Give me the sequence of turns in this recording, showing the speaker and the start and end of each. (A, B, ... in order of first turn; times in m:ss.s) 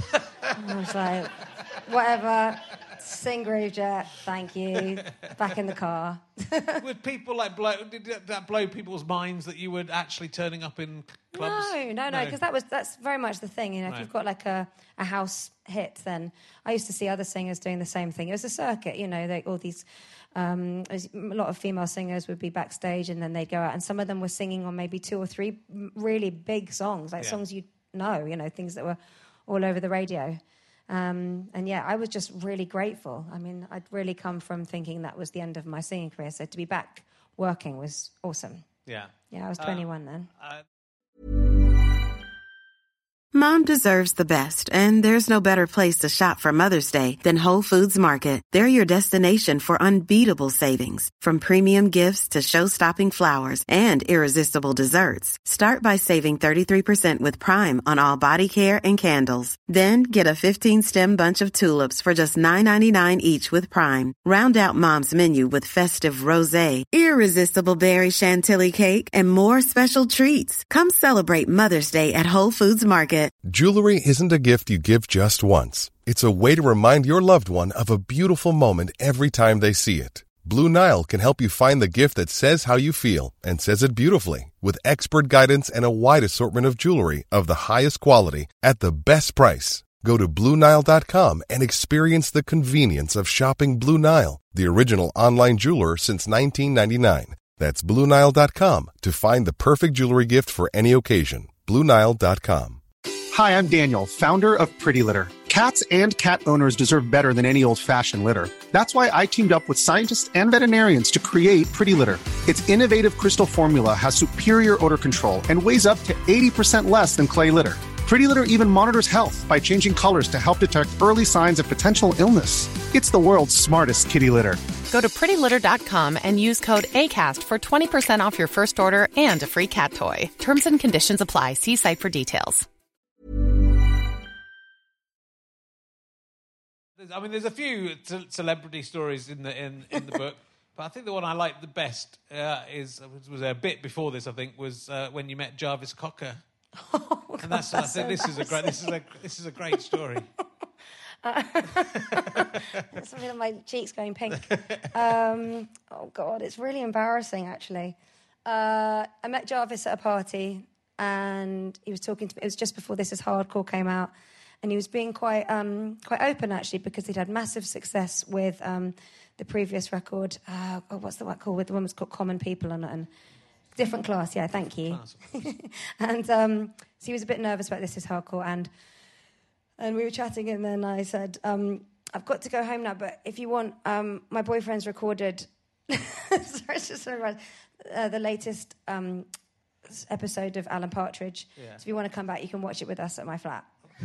0:00.5-0:06.8 A
0:06.8-0:12.4 B
0:11.3-0:38.7 A
0:38.8-0:39.9 B
0:39.3-0:40.3 A
0:43.3-1:13.3 C
1:13.4-1:42.8 D
1:43.3-2:04.6 E
2:04.9-2:12.7 F
2:17.0-2:26.4 B
2:26.8-2:28.9 A
2:27.4-2:30.3 B
2:31.2-2:53.1 A
2:32.0-2:32.8 B
2:34.5-2:34.9 B
2:53.8-2:58.7 A
2:54.9-2:55.5 B
2:59.8-3:09.3 A
3:09.8-3:13.7 A